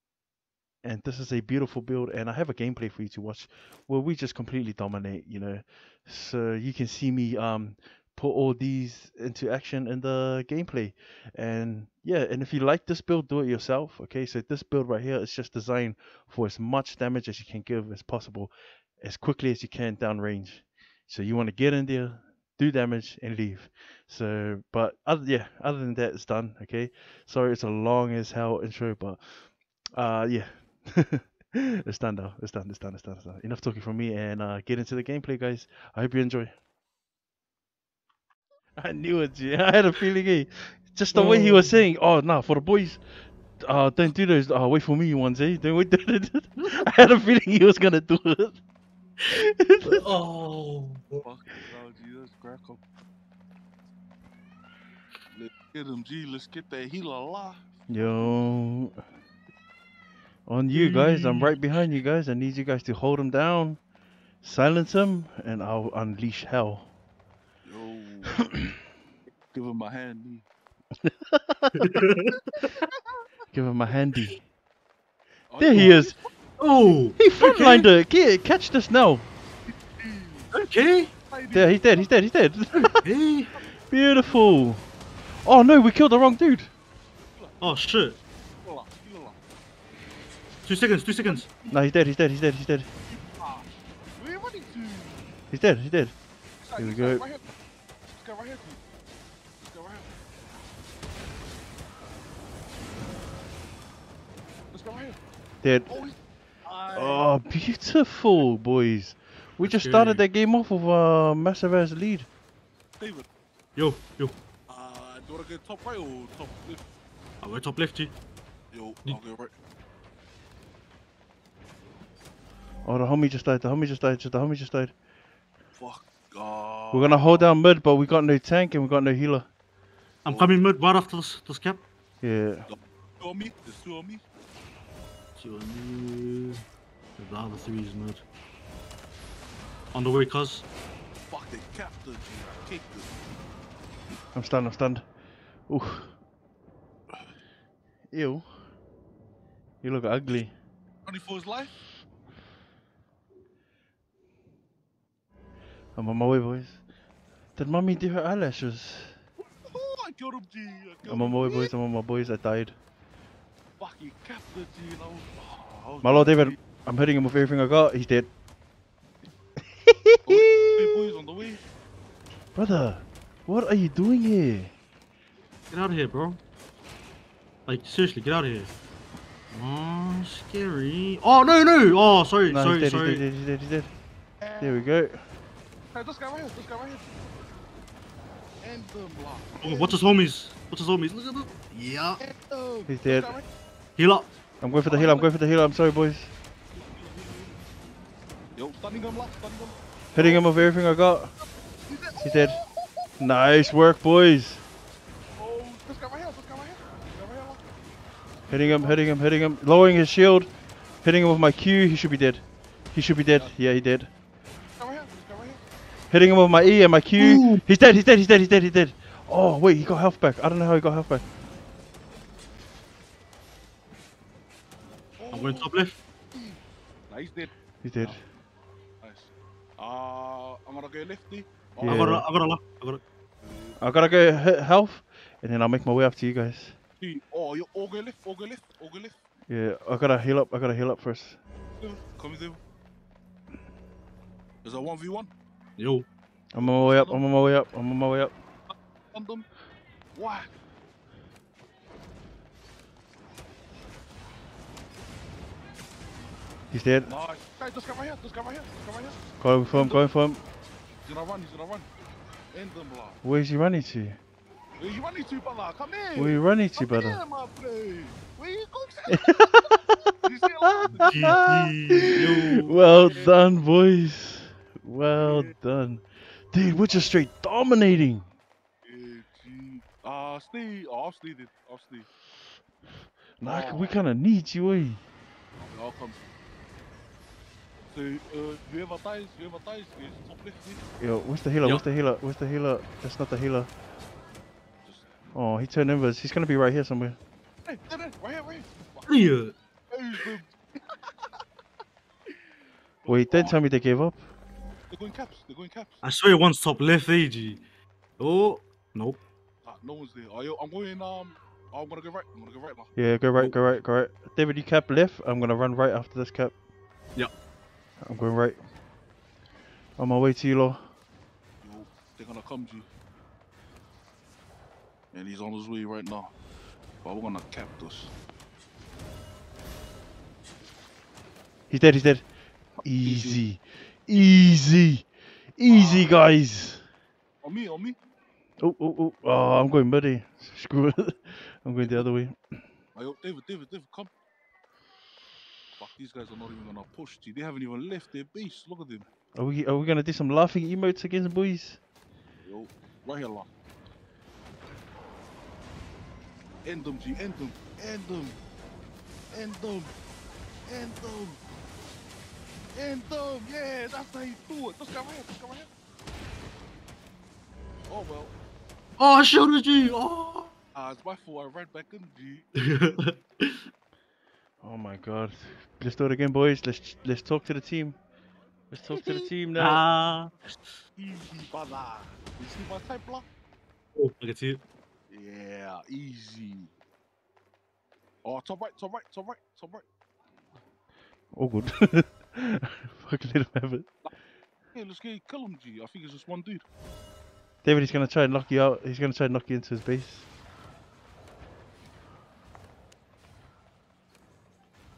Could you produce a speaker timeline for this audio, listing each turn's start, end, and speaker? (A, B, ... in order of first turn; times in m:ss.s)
0:00.8-0:29.2 A
0:30.0-0:36.5 A
0:38.8-0:43.0 A
0:41.1-0:41.8 B
0:43.6-0:48.6 A
0:49.3-0:50.0 A
0:49.8-0:51.2 B
0:51.2-0:52.8 C
0:55.3-0:58.3 C
0:57.9-0:59.0 A
1:00.5-1:03.8 A
1:00.7-1:01.6 B
1:04.4-1:06.9 A
1:07.6-1:08.4 C
1:08.4-1:08.7 A
1:09.5-1:10.5 C
1:11.0-1:11.8 A
1:11.8-1:12.3 B
1:13.5-1:14.4 A
1:15.5-1:16.2 C
1:15.6-1:16.1 A
1:16.6-1:17.9 B
1:17.2-1:19.3 A
1:20.0-1:20.5 C
1:20.5-1:21.1 B
1:21.3-1:22.1 C
1:21.5-1:23.0 A
1:23.0-1:23.5 B
1:23.9-1:24.9 A
1:25.4-1:26.7 A
1:27.3-1:29.4 C
1:27.6-1:28.2 B
1:30.6-1:31.5 B
1:31.2-1:31.7 C
1:31.7-1:32.9 A
1:33.1-1:35.2 C
1:35.5-1:36.2 A
1:36.6-1:37.4 C
1:36.8-1:37.2 A
1:38.1-1:38.8 C
1:39.6-1:40.1 C
1:44.7-1:45.2 C
1:45.6-1:46.0 A
1:45.9-1:47.2 C
1:46.9-1:52.3 A
1:49.6-1:50.2 B
1:53.0-1:53.2 C
1:53.8-1:54.4 B
1:54.7-1:56.8 C
1:57.4-1:58.1 B
1:58.7-1:59.5 C
2:02.8-2:04.9 A
2:05.7-2:07.6 C
2:06.9-2:09.5 A
2:10.2-2:11.8 B
2:10.3-2:10.6 C
2:12.2-2:12.7 A
2:12.7-2:14.2 C
2:15.4-2:16.6 B
2:17.2-2:18.2 B
2:19.9-2:20.6 B
2:21.3-2:23.1 C
2:24.3-2:25.1 A
2:25.7-2:26.1 A
2:28.1-2:28.5 A
2:29.8-2:30.5 A
2:31.1-2:31.7 C
2:36.0-2:36.8 A
2:37.6-2:39.2 A
2:39.6-2:41.7 C
2:41.1-2:42.8 A
2:43.8-2:46.6 C
2:46.0-2:48.3 A
2:49.9-2:51.0 A
2:50.3-2:51.6 C
2:52.6-2:54.7 A
2:55.7-2:56.4 B
2:57.6-2:58.7 B
2:59.5-3:03.2 B
3:02.5-3:03.9 A
3:04.4-3:04.8 C
3:04.6-3:05.2 A
3:05.9-3:07.2 C
3:08.6-3:10.0 C
3:09.6-3:12.2 B
3:12.2-3:13.4 C
3:12.9-3:13.3 A
3:14.0-3:14.3 B
3:14.6-3:16.3 A
3:14.8-3:15.3 C
3:16.7-3:17.7 C
3:18.6-3:20.5 C
3:20.1-3:21.3 A
3:21.9-3:23.4 C
3:22.2-3:22.6 A
3:23.2-3:24.6 A
3:25.4-3:27.6 C
3:28.4-3:29.0 C
3:28.5-3:30.5 A
3:31.0-3:34.1 A
3:34.8-3:35.6 C
3:36.1-3:41.2 A
3:37.2-3:37.6 B
3:45.2-3:45.7 C
3:45.3-3:46.0 B
3:46.3-3:47.5 C
3:47.8-3:48.2 A
3:49.0-3:52.2 C
3:51.8-3:52.2 A
3:51.9-3:53.0 B
3:53.4-3:53.8 C
3:53.8-3:56.8 A
3:57.0-3:59.2 C
3:59.5-4:01.4 A
4:01.8-4:02.6 C
4:04.6-4:05.3 C
4:05.8-4:06.1 B
4:06.5-4:08.3 A
4:06.6-4:07.2 C
4:09.1-4:09.5 C
4:10.1-4:10.5 C
4:16.7-4:17.1 A
4:17.1-4:19.2 C
4:19.4-4:20.4 A
4:19.7-4:20.0 C
4:21.0-4:21.9 C
4:22.5-4:23.2 C
4:23.2-4:24.2 A
4:24.8-4:29.5 C
4:26.2-4:27.2 A
4:29.1-4:30.0 A
4:30.2-4:31.4 C
4:30.8-4:38.3 A
4:31.0-4:32.8 B
4:32.9-4:33.3 C
4:35.2-4:35.5 C
4:38.9-4:42.1 C
4:43.4-4:45.0 A
4:43.4-4:44.0 C
4:45.6-4:46.2 C
4:47.9-4:50.8 C
4:51.0-4:53.7 A
4:55.3-4:57.2 A
4:57.7-4:59.2 C
4:59.1-4:59.5 B
4:59.9-5:01.3 C
5:03.0-5:03.6 C
5:03.1-5:04.3 A
5:04.9-5:06.0 C
5:06.0-5:07.6 B
5:08.2-5:09.2 B
5:09.6-5:13.8 C
5:13.0-5:16.6 A
5:18.0-5:18.6 A
5:20.0-5:20.9 A
5:21.6-5:22.9 C
5:25.1-5:26.3 C
5:27.0-5:28.1 C
5:31.7-5:32.3 A
5:32.8-5:36.8 A
5:33.0-5:33.4 C
5:35.7-5:36.2 C
5:37.4-5:38.0 C
5:38.6-5:42.4 A
5:43.0-5:44.1 C
5:45.8-5:49.1 C
5:49.4-5:51.8 A
5:52.4-5:53.5 C
5:56.6-5:58.4 C
5:59.3-5:59.9 C
6:00.7-6:01.4 C
6:02.8-6:05.7 C
6:07.9-6:08.3 C
6:09.0-6:10.5 B
6:10.8-6:12.6 C
6:12.6-6:13.5 B
6:14.6-6:18.0 A
6:18.7-6:19.8 A
6:19.6-6:20.3 B
6:21.0-6:23.2 C
6:24.0-6:24.6 B
6:25.1-6:26.7 C
6:28.2-6:29.8 C
6:31.3-6:33.9 A
6:34.7-6:36.6 C
6:37.6-6:40.3 A